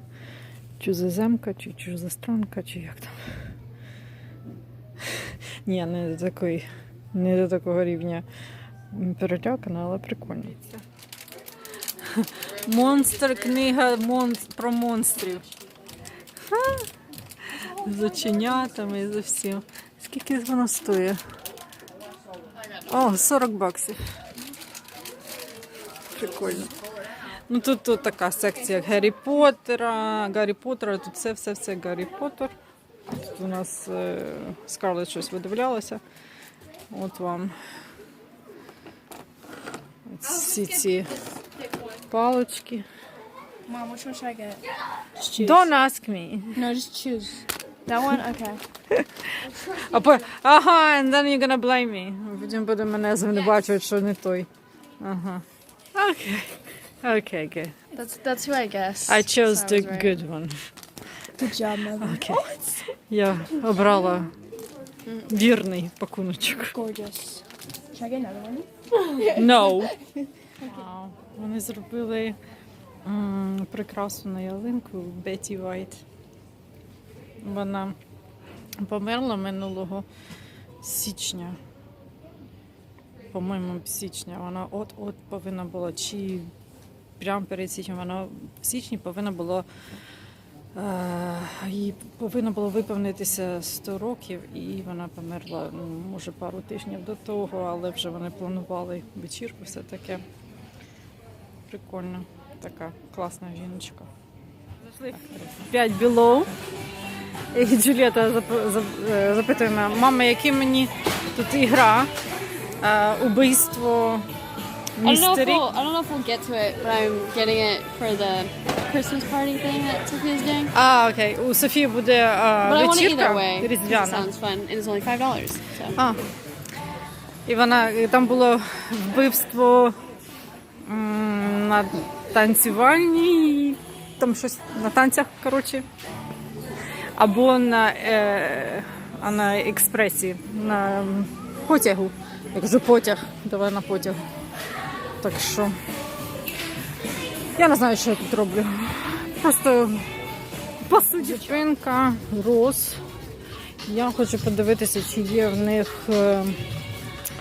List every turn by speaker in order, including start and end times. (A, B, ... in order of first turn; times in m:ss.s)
0:00.8-0:03.2 A
0:05.2-0:08.2 A
0:08.9-0:10.8 A
0:12.0-0:15.4 A
0:16.5-0:16.9 A
0:17.5-0:21.2 A
0:22.8-0:24.0 A
0:26.1-0:26.7 A
0:27.5-0:32.5 A
0:33.2-0:36.0 A
0:36.9-0:37.5 A
0:40.1-0:41.1 A
0:42.0-0:42.9 A
0:43.7-0:44.6 B
0:45.2-0:45.6 B
0:45.4-0:46.7 A
0:46.5-0:48.6 B
0:48.9-0:54.5 A
0:55.0-0:55.4 A
0:55.9-0:57.7 A
0:57.9-1:00.2 C
0:59.1-1:00.5 A
1:01.3-1:02.5 B
1:02.0-1:04.3 A
1:05.3-1:06.7 A
1:06.6-1:08.7 B
1:09.1-1:10.0 A
1:10.6-1:12.4 A
1:13.0-1:16.0 A
1:17.4-1:18.0 A
1:18.8-1:20.0 A
1:20.8-1:21.6 A
1:23.3-1:26.5 A
1:27.2-1:29.6 A
1:30.7-1:40.2 A
1:41.7-1:44.1 A
1:44.9-1:46.5 A
1:47.5-1:52.1 A
1:52.8-1:54.3 A
1:55.0-1:55.6 A
1:55.0-2:00.7 C
2:00.7-2:04.3 A
2:02.6-2:06.0 C
2:06.0-2:06.2 A
2:07.4-2:09.9 A
2:10.8-2:15.8 A
2:17.2-2:24.2 A
2:25.2-2:25.7 A
2:27.6-2:30.0 A
2:30.8-2:33.0 A
2:33.8-2:36.6 A